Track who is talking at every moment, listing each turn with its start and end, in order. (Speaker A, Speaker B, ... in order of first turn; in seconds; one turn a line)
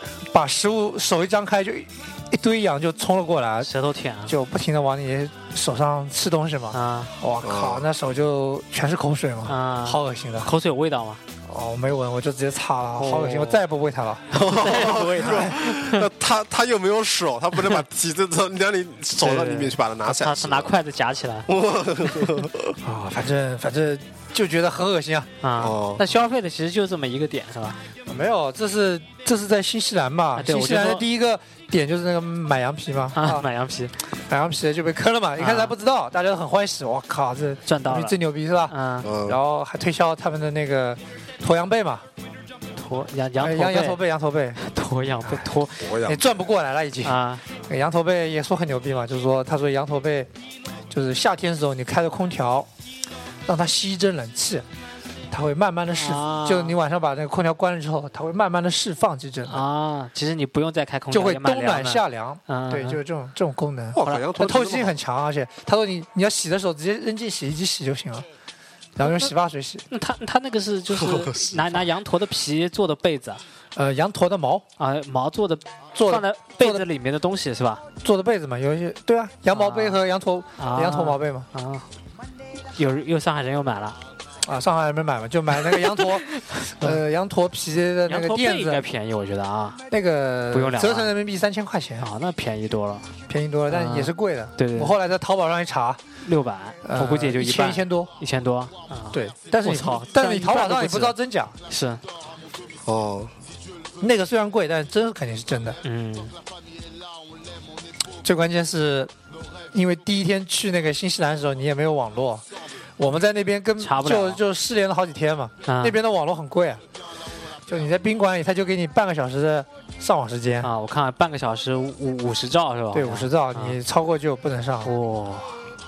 Speaker A: 0.2-3.7
Speaker B: 3.6-4.4
Speaker A: 4.3-10.5
Speaker B: 6.7-7.1
Speaker C: 7.4-7.8
Speaker B: 9.5-11.2
Speaker A: 11.4-14.4
Speaker B: 13.0-13.5
Speaker C: 13.0-13.6
Speaker B: 14.3-16.1
Speaker C: 14.3-20.7
Speaker A: 15.2-15.6
Speaker B: 19.2-21.5
Speaker C: 21.5-22.8
Speaker B: 22.1-22.4
Speaker A: 22.8-25.3
Speaker B: 25.4-27.8
Speaker C: 25.6-26.0
Speaker A: 28.1-33.5
Speaker B: 30.4-31.1
Speaker B: 33.1-34.1
Speaker A: 34.3-42.1
Speaker B: 35.4-35.8
Speaker B: 37.7-39.1
Speaker C: 39.0-39.4
Speaker B: 42.8-44.0
Speaker A: 43.4-44.6
Speaker B: 44.6-45.9
Speaker C: 45.8-46.5
Speaker A: 46.0-50.3
Speaker B: 47.0-47.4
Speaker A: 50.9-52.7
Speaker A: 53.5-54.6
Speaker A: 55.3-59.6
Speaker B: 55.9-56.8
Speaker B: 59.5-63.0
Speaker A: 61.1-68.3
Speaker C: 63.9-65.0
Speaker B: 64.0-64.3
Speaker A: 69.0-69.9
Speaker B: 69.0-69.3
Speaker B: 69.9-73.4
Speaker C: 71.2-71.5
Speaker A: 73.8-74.7
Speaker B: 74.8-77.8
Speaker A: 76.0-76.8
Speaker A: 78.0-81.5
Speaker B: 79.5-80.0
Speaker B: 80.6-81.9
Speaker B: 82.7-84.0
Speaker A: 84.4-88.8
Speaker B: 86.3-87.0
Speaker B: 88.1-89.8
Speaker A: 89.9-92.1
Speaker B: 90.5-91.1
Speaker B: 92.0-93.1
Speaker A: 93.3-96.0
Speaker B: 93.7-95.0
Speaker B: 96.2-101.2
Speaker A: 96.8-98.1
Speaker A: 99.1-101.6
Speaker B: 101.7-102.0
Speaker C: 102.8-103.3
Speaker A: 104.0-105.8
Speaker B: 105.8-106.4
Speaker A: 108.2-109.1
Speaker A: 109.7-112.4
Speaker A: 113.0-116.8
Speaker B: 113.8-114.4
Speaker B: 115.7-116.0
Speaker A: 117.7-120.7
Speaker B: 120.6-123.8
Speaker A: 122.9-124.9
Speaker B: 124.8-125.6